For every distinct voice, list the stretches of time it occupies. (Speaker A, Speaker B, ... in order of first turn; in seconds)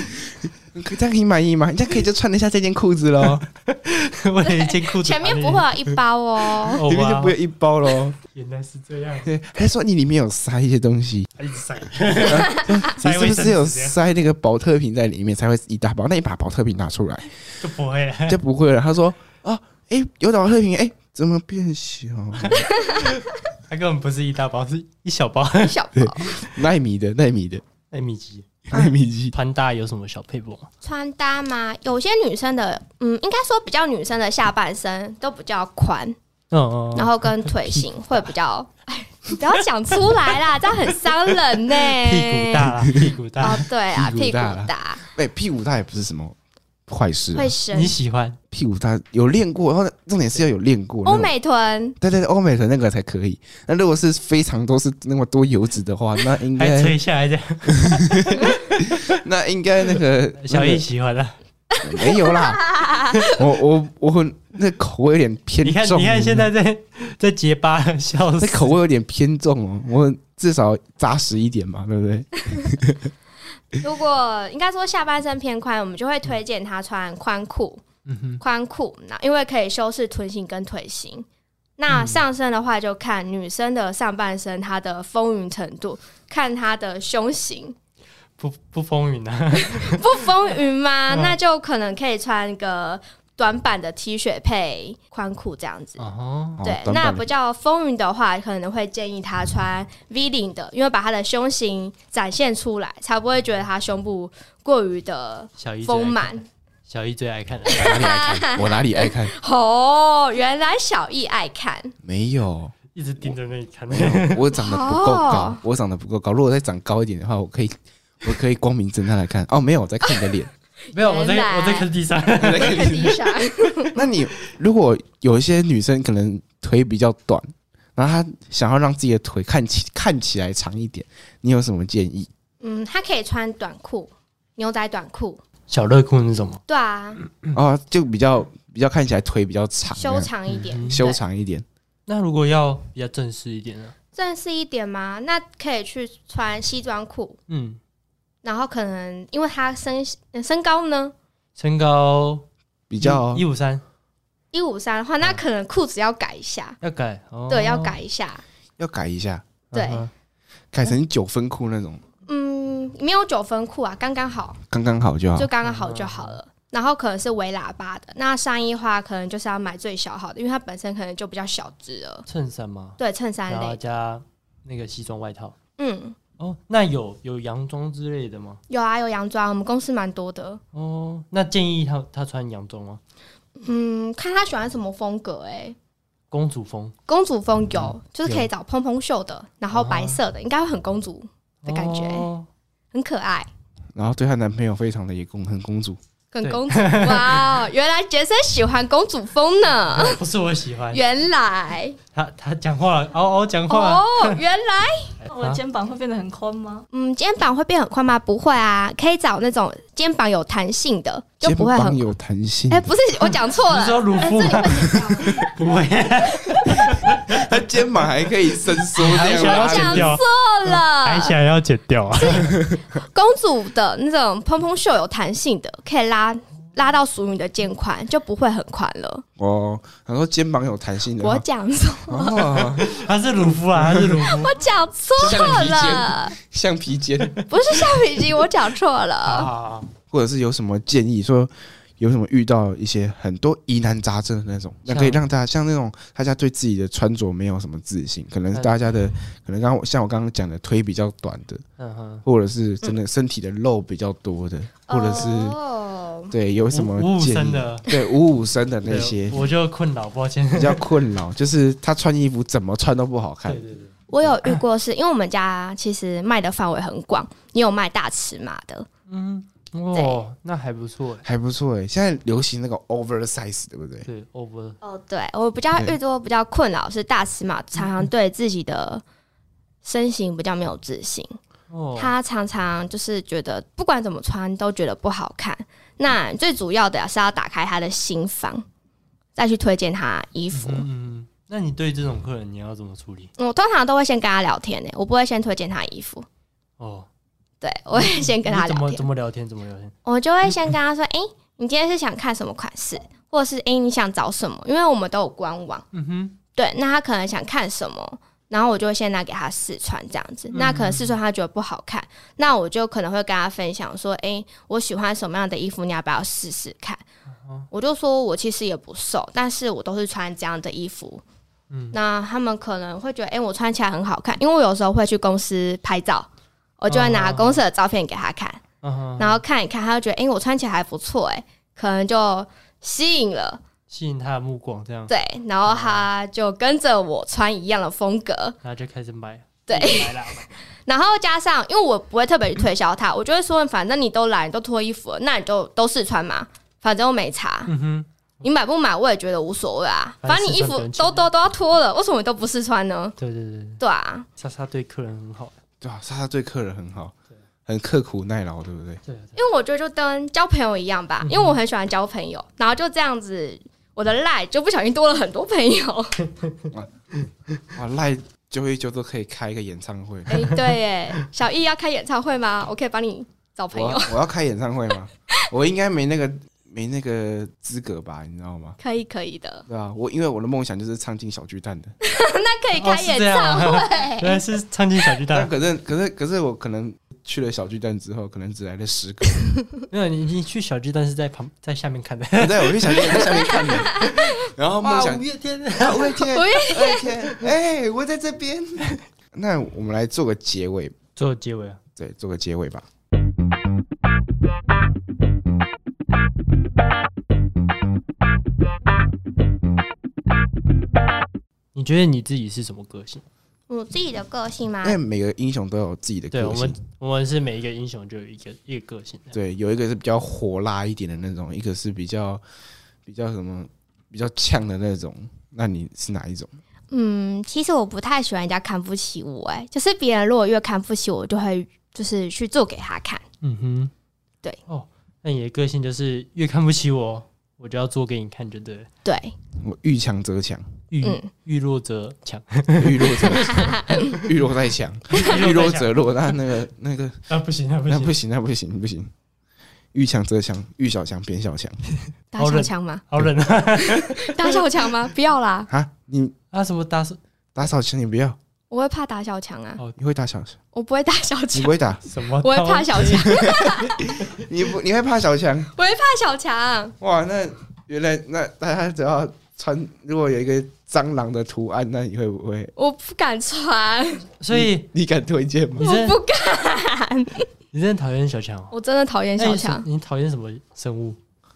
Speaker A: 0.4-3.5, 6.8-8.2, 9.2-11.3, 12.2-17.3, 18.3-22.7, 26.0-27.6, 28.7-29.4, 43.9-46.4, 46.9-47.5, 48.5-51.3, 52.0-57.0, 57.7-60.9, 61.8-62.7, 63.3-66.5, 68.4-73.1, 96.6-97.3, 107.7-109.3, 112.0-112.7, 113.9-120.5, 122.4-123.2, 123.9-132.3, 137.5-140.3, 140.8-141.7, 152.9-153.4, 158.8-159.5, 160.7-162.0, 164.7-165.5, 193.9-196.0, 211.4-212.9, 216.8-220.2, 222.3-222.8, 229.4-231.4, 232.1-232.9, 233.8-234.2, 235.2-237.4, 240.1-251.6, 252.2-255.6, 256.3-259.4, 260.5-263.6, 271.2-274.1, 355.8-357.1, 357.7-359.0, 367.7-370.4, 373.7-378.8, 379.7-381.9, 385.3-389.4, 392.4-400.9, 402.0-402.9, 414.8-416.8, 419.3-422.4, 423.1-426.5, 439.6-440.7, 442.8-447.2, 447.9-449.1, 449.9-451.8, 455.7-456.4, 457.6-458.4, 460.0-460.6, 461.5-462.0, 463.3-465.7, 467.0-472.7, 474.5-475.9
Speaker B: 3.4-5.7, 6.7-7.3, 8.2-9.3, 11.4-14.0, 17.6-18.4, 22.4-25.8, 27.9-30.7, 36.5-37.9, 41.8-43.7, 47.7-48.4, 56.5-59.1, 60.4-61.4, 65.6-68.8, 78.1-78.4, 81.9-82.2, 88.4-90.0, 91.1-91.4, 96.0-96.6, 105.6-108.0, 113.0-114.5, 120.9-123.2, 135.7-136.6, 137.2-137.6, 140.5-141.0, 142.1-143.9, 147.5-147.8, 151.6-152.5, 153.0-153.8, 156.8-158.0, 159.7-160.1, 165.6-166.4, 172.3-175.6, 176.4-178.6, 180.7-183.0, 186.3-186.9, 187.7-188.5, 189.7-190.2, 191.6-192.5, 196.4-197.6, 199.9-201.0, 202.1-204.4, 205.2-205.6, 213.6-217.5, 219.0-222.5, 232.6-234.6, 235.2-236.0, 239.2-239.9, 244.9-245.2, 248.5-248.8, 251.8-252.2, 256.7-257.9, 258.9-260.9, 263.5-264.6, 269.1-271.2, 274.1-274.8, 281.7-282.1, 290.5-293.3, 296.8-297.1, 297.9-299.9, 305.9-306.4, 310.5-311.2, 321.7-321.9, 326.9-327.6, 328.8-329.4, 333.9-335.1, 335.6-336.1, 338.6-340.5, 347.7-348.1, 350.2-351.3, 353.2-353.8, 354.4-355.5, 359.1-359.4, 361.2-361.6, 382.8-385.5, 389.9-394.1, 394.8-396.3, 401.2-401.8, 411.8-413.2, 416.3-419.4, 433.4-433.9, 434.7-438.9, 440.9-444.2, 445.1-446.0, 447.3-448.1, 452.4-454.6, 456.5-457.2, 462.1-463.6, 474.4-474.9, 475.8-476.2, 477.7-478.7, 479.4-481.2
Speaker C: 4.4-6.8, 25.6-26.4, 30.8-36.2, 37.0-42.7, 43.4-45.0, 47.3-48.0, 51.0-52.0, 62.0-63.2, 73.8-77.8, 78.4-81.3, 81.8-87.8, 89.7-96.1, 96.6-106.4, 107.8-111.9, 114.6-115.6, 120.9-121.9, 122.5-124.0, 132.6-135.4, 136.7-137.2, 139.9-141.2, 144.2-147.4, 148.4-151.1, 154.5-156.8, 157.5-158.4, 159.7-160.1, 162.3-164.6, 165.4-172.3, 173.0-173.8, 175.8-176.2, 178.7-180.6, 183.6-185.8, 187.1-192.3, 192.9-193.5, 196.3-200.2, 200.9-202.0, 203.7-205.2, 206.9-212.0, 212.7-215.3, 219.0-221.3, 223.0-229.2, 231.2-232.6, 234.3-236.3, 237.5-239.5, 254.9-256.3, 264.1-268.9, 269.9-270.2, 274.8-279.0, 279.8-281.4, 282.0-288.6, 289.4-290.9, 293.4-296.3, 297.6-299.1, 300.1-305.8, 306.6-317.0, 317.7-321.2, 321.9-326.3, 326.8-328.6, 329.2-333.6, 335.1-338.6, 339.7-340.3, 340.9-347.7, 348.4-353.1, 353.8-354.3, 359.4-366.2, 370.3-374.2, 378.8-379.6, 382.0-384.4, 393.5-394.3, 396.3-397.1, 413.7-415.0, 426.9-433.2, 439.1-439.4, 441.0-441.3, 443.2-444.2, 452.3-453.0, 453.8-455.7, 458.7-459.8, 460.7-461.7, 462.4-464.1, 465.7-466.9, 472.8-474.3, 475.8-477.5, 478.7-479.9
Speaker D: 205.3-206.8, 214.4-215.0